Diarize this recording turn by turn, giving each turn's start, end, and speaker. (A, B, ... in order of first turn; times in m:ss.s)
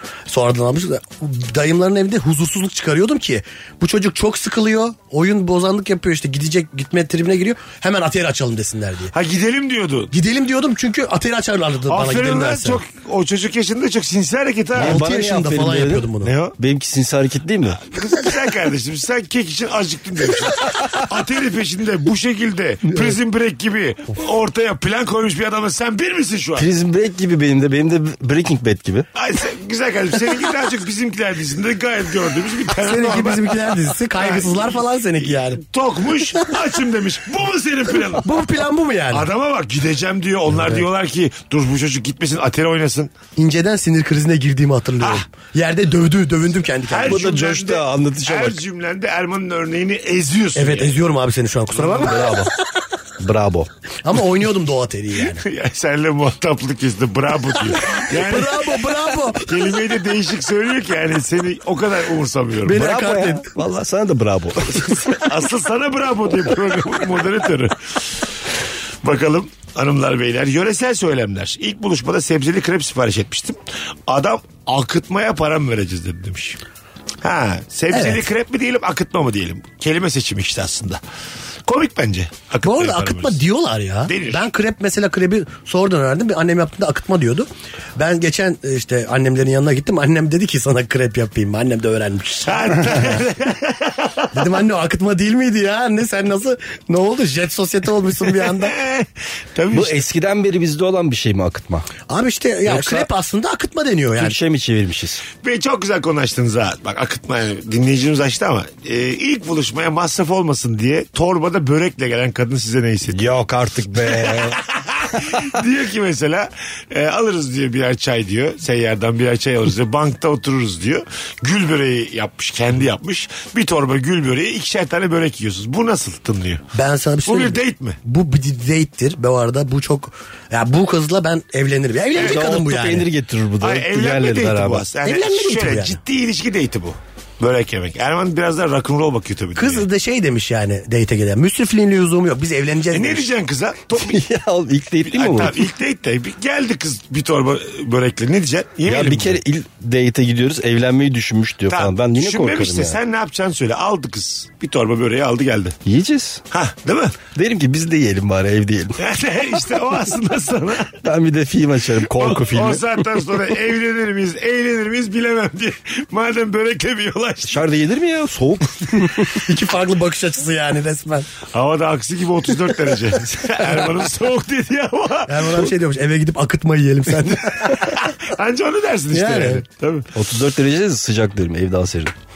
0:00.3-0:09.1 A
0:09.1-0:10.1 B
0:10.1-0:12.8 A
0:11.9-0:15.0 B
0:14.7-0:17.8 C
0:14.8-0:16.3 A
0:16.2-0:16.6 B
0:17.7-0:26.7 B
0:26.6-0:29.1 C
0:29.1-0:38.4 B
0:32.8-0:35.6 A
0:38.2-0:39.3 A
0:39.1-0:43.1 B
0:40.5-0:40.8 A
0:43.4-0:47.2 A
0:45.0-0:45.2 B
0:46.8-0:51.0 B
0:47.0-0:48.6 C
0:50.5-0:52.4 A
0:51.7-0:52.1 B
0:51.9-0:52.5 C
0:53.2-0:53.7 C
0:54.0-0:55.4 A
0:55.3-0:58.7 B
0:58.0-0:59.7 A
0:59.4-1:03.0 B
1:02.6-1:03.5 A
1:02.6-1:05.3 C
1:05.2-1:08.3 B
1:09.0-1:16.6 B
1:17.2-1:21.0 B
1:17.9-1:18.2 A
1:21.6-1:23.4 B
1:22.6-1:33.2 A
1:24.1-1:24.5 B
1:32.4-1:34.6 B
1:34.3-1:38.7 A
1:38.2-1:40.0 B
1:39.7-1:41.9 C
1:42.1-1:44.4 A
1:42.6-1:43.1 C
1:44.2-1:45.2 C
1:45.4-1:53.3 B
1:53.1-1:54.6 C
1:54.0-2:06.6 B
2:06.7-2:13.1 A
2:07.2-2:08.0 B
2:12.1-2:12.6 B
2:12.1-2:14.9 C
2:13.6-2:19.9 B
2:15.0-2:16.0 A
2:19.5-2:23.3 A
2:22.9-2:24.2 B
2:24.0-2:25.6 C
2:25.0-2:29.4 B
2:28.8-2:33.0 C
2:31.7-2:35.8 B
2:35.8-2:36.4 C
2:36.5-2:37.2 B
2:37.3-2:39.0 C
2:39.0-2:41.0 B
2:41.0-2:42.8 C
2:42.0-2:47.6 B
2:47.4-2:49.4 C
2:49.4-2:51.3 A
2:51.5-2:55.7 B
2:55.3-2:58.0 A
2:57.6-3:00.1 B
2:59.1-2:59.6 A
3:00.1-3:02.1 C